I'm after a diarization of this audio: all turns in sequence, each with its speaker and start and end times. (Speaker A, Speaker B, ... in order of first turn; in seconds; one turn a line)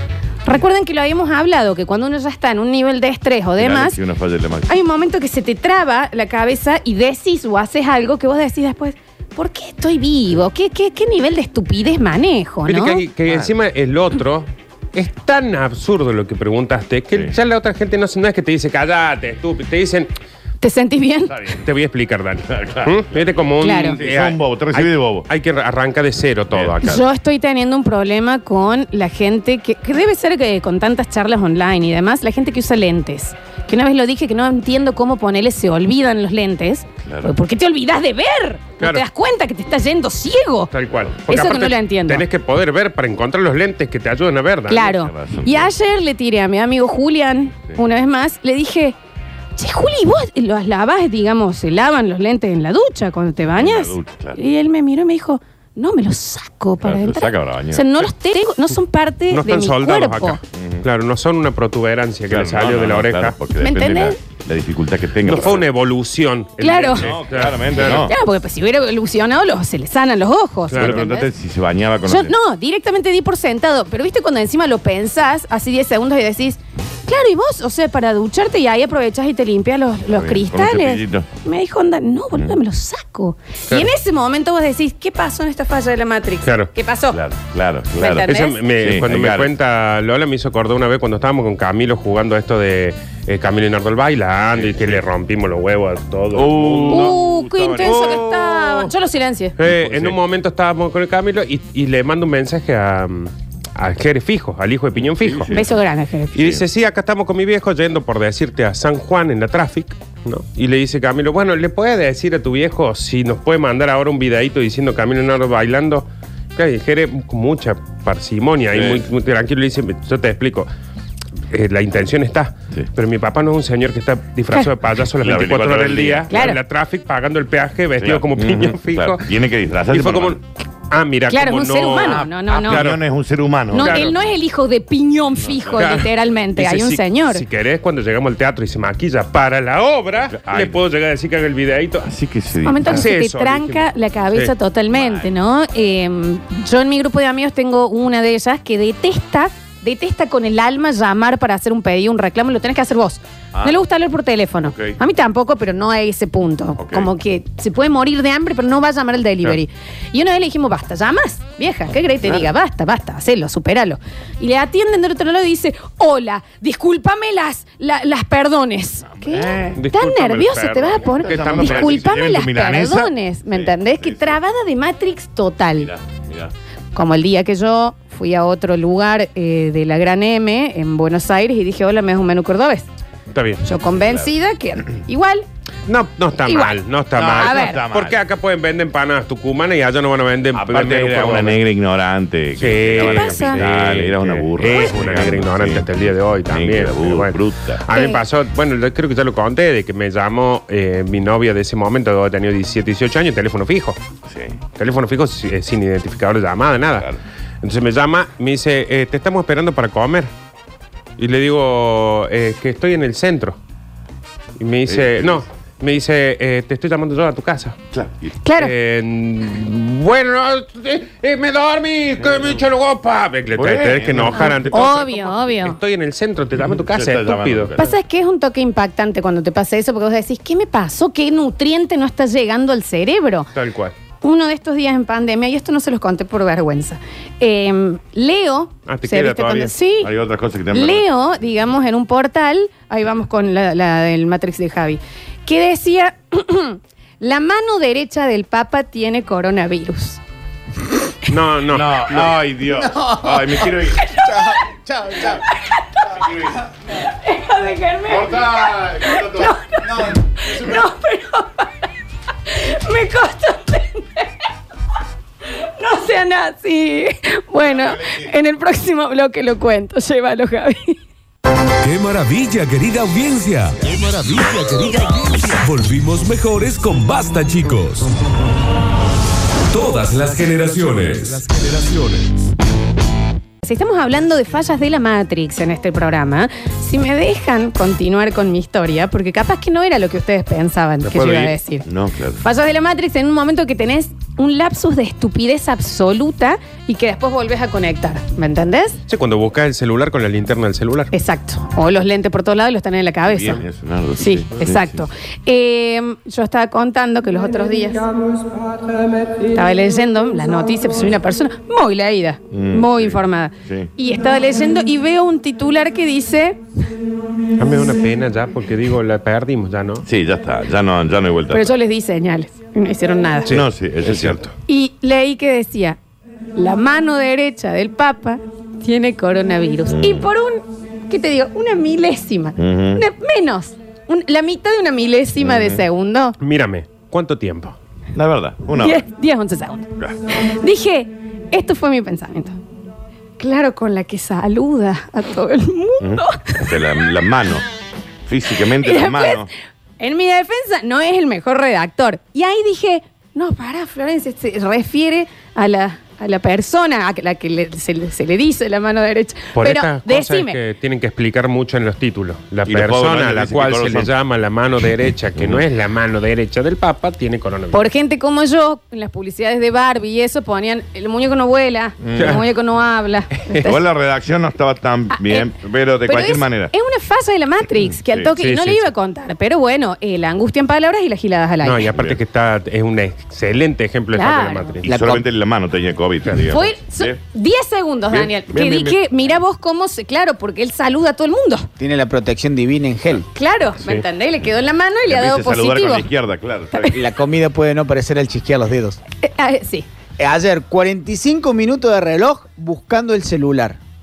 Speaker A: 0.4-4.0
Speaker B: 3.6-4.7
Speaker A: 4.7-13.0
Speaker C: 12.7-20.1
Speaker B: 13.3-13.5
Speaker A: 20.6-21.3
Speaker B: 21.3-21.6
Speaker C: 21.6-27.0
Speaker B: 22.5-25.3
Speaker A: 23.6-24.0
Speaker B: 26.5-26.8
Speaker A: 26.8-40.7
Speaker B: 37.0-37.3
Speaker C: 40.7-45.0
Speaker A: 41.3-42.2
Speaker A: 44.7-49.0
Speaker B: 45.0-45.7
Speaker A: 49.6-60.4
Speaker B: 53.6-54.4
Speaker B: 56.8-57.8
Speaker C: 59.3-63.4
Speaker B: 60.5-60.8
Speaker B: 62.3-65.7
Speaker A: 63.6-64.2
Speaker C: 65.2-68.1
Speaker A: 66.6-67.1
Speaker B: 66.9-68.1
Speaker A: 67.9-71.3
Speaker C: 70.7-71.1
Speaker B: 70.8-72.3
Speaker A: 72.0-87.2
Speaker B: 80.1-81.3
Speaker C: 86.4-86.7
Speaker B: 87.1-89.5
Speaker A: 88.0-88.6
Speaker C: 88.2-98.2
Speaker B: 94.5-95.0
Speaker B: 96.3-98.9
Speaker A: 96.9-99.5
Speaker C: 99.6-105.5
Speaker B: 99.6-100.2
Speaker B: 105.0-105.7
Speaker A: 105.5-106.4
Speaker C: 106.3-120.7
Speaker B: 118.7-119.1
Speaker C: 121.5-129.3
Speaker B: 125.2-126.3
Speaker A: 126.3-126.6
Speaker B: 128.0-130.4
Speaker C: 129.9-133.0
Speaker A: 131.3-132.8
Speaker B: 132.1-134.1
Speaker A: 133.7-137.4
Speaker C: 133.8-134.1
Speaker B: 135.3-135.8
Speaker C: 135.8-142.1
Speaker B: 140.2-140.8
Speaker B: 142.0-143.0
Speaker A: 142.6-175.9
Speaker C: 142.8-144.5
Speaker B: 144.9-145.3
Speaker B: 154.6-155.0
Speaker B: 156.8-157.1
Speaker B: 169.1-174.4
Speaker C: 169.8-172.1
Speaker B: 175.8-176.5
Speaker A: 176.9-182.9
Speaker C: 183.3-183.6
Speaker A: 183.6-185.5
Speaker B: 183.9-184.3
Speaker C: 185.9-191.6
Speaker A: 186.4-186.8
Speaker B: 187.1-188.2
Speaker A: 187.4-187.8
Speaker B: 190.5-195.9
Speaker C: 192.6-204.0
Speaker A: 193.0-193.7
Speaker B: 196.4-197.8
Speaker A: 197.9-198.2
Speaker B: 204.2-204.6
Speaker C: 204.8-207.1
Speaker C: 207.6-210.3
Speaker C: 211.2-213.6
Speaker C: 214.6-217.8
Speaker B: 214.8-215.4
Speaker B: 217.9-218.3
Speaker A: 218.4-218.7
Speaker C: 218.6-227.8
Speaker B: 222.2-222.6
Speaker B: 223.5-224.9
Speaker A: 224.3-225.8
Speaker B: 226.6-227.9
Speaker A: 227.8-233.5
Speaker C: 233.5-233.9
Speaker A: 234.2-240.1
Speaker C: 238.9-239.6
Speaker B: 239.1-241.1
Speaker A: 240.7-250.2
Speaker C: 251.3-252.3
Speaker B: 251.7-254.2
Speaker A: 252.9-254.3
Speaker A: 255.2-256.2
Speaker B: 256.2-256.5
Speaker A: 257.0-261.7
Speaker B: 258.1-260.1
Speaker A: 262.5-264.2
Speaker A: 265.6-271.0
Speaker B: 267.6-268.3
Speaker D: 271.8-278.1
Speaker D: 279.7-282.5
Speaker A: 283.6-291.9
Speaker C: 291.0-291.5
Speaker B: 291.8-292.4
Speaker A: 292.4-299.0
Speaker C: 299.1-301.1
Speaker A: 301.1-303.6
Speaker B: 303.3-305.0
Speaker A: 304.2-308.0
Speaker A: 309.5-316.6
Speaker B: 312.5-313.9
Speaker C: 317.6-320.0
Speaker B: 320.0-321.7
Speaker A: 321.5-323.6
Speaker B: 323.5-324.5
Speaker C: 324.0-324.5
Speaker A: 324.7-326.0
Speaker A: 326.6-336.4
Speaker B: 329.9-330.3
Speaker B: 332.6-333.0
Speaker B: 335.4-335.8
Speaker C: 336.4-337.8
Speaker B: 338.1-339.0
Speaker A: 338.8-339.9
Speaker A: 340.5-342.6
Speaker A: 343.4-346.6
Speaker B: 346.0-347.6
Speaker B: 348.3-349.5
Speaker A: 348.8-349.4
Speaker A: 350.0-360.6
Speaker C: 359.6-367.9
Speaker B: 362.6-364.1
Speaker B: 365.4-365.6
Speaker A: 367.7-373.8
Speaker B: 372.0-372.4
Speaker C: 372.2-372.4
Speaker B: 373.6-376.7
Speaker A: 375.1-375.5
Speaker A: 376.0-381.9
Speaker B: 378.1-378.3
Speaker C: 378.4-378.9
Speaker C: 381.6-384.9
Speaker B: 381.9-382.2
Speaker A: 384.1-384.8
Speaker B: 384.8-387.2
Speaker E: 384.9-385.2
Speaker A: 386.5-391.7
Speaker B: 388.1-389.0
Speaker E: 391.8-393.2
Speaker A: 393.3-396.1
Speaker B: 395.1-396.9
Speaker E: 396.9-399.0
Speaker A: 399.2-399.9
Speaker E: 400.2-403.8